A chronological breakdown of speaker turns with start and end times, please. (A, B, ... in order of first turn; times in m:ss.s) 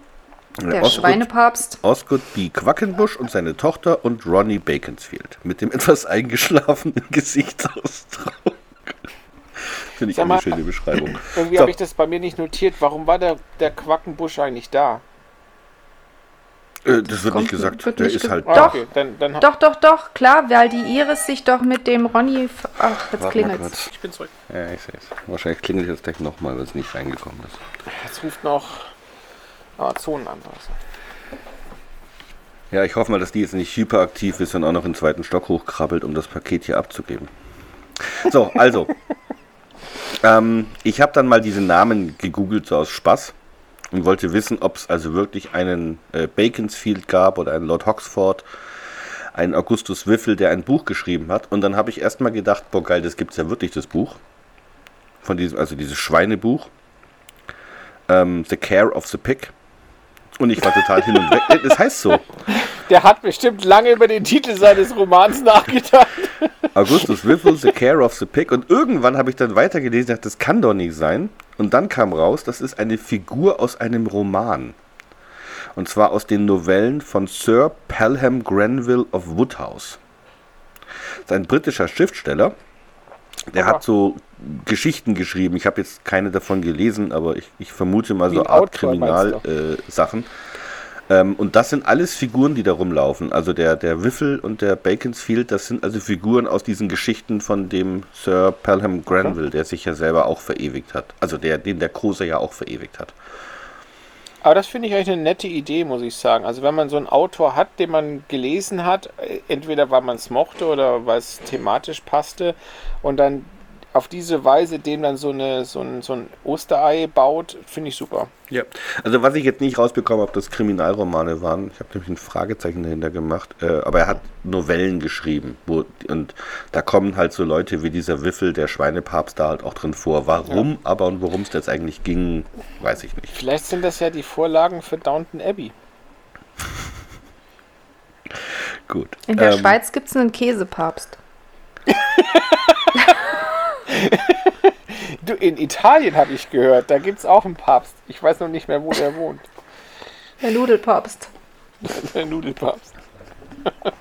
0:00.6-0:01.3 A
0:00.7-0:01.8 B
0:01.8-0:09.0 A
0:09.6-0:11.7 A
0:10.1-0:10.5 C
0:11.1-0:15.0 C
0:16.9-0:18.8 A
0:17.2-0:18.8 B
0:18.5-0:19.4 C
0:19.4-0:23.7 B
0:23.2-0:23.9 A
0:23.9-0:24.3 C
0:24.5-0:27.6 A
0:27.9-0:28.9 C
0:29.8-0:30.8 C
0:32.7-0:37.3 A
0:38.0-0:38.9 A
0:40.2-0:43.3 A
0:43.9-0:48.4 A
0:49.4-0:54.2 A
0:55.2-0:56.7 A
0:58.1-0:59.5 A
1:00.4-1:02.2 A
1:02.6-1:07.1 C
1:06.7-1:14.8 A
1:15.8-1:20.0 A
1:21.2-1:22.6 A
1:23.5-1:30.3 A
1:28.3-1:29.4 C
1:31.1-1:43.2 A
1:44.4-1:58.3 C
1:58.5-2:13.3 A
2:13.3-2:15.7 C
2:18.9-2:19.8 A
2:19.3-2:21.2 B
2:21.9-2:22.9 C
2:23.9-2:29.5 C
2:30.4-2:31.3 B
2:31.8-2:32.9 C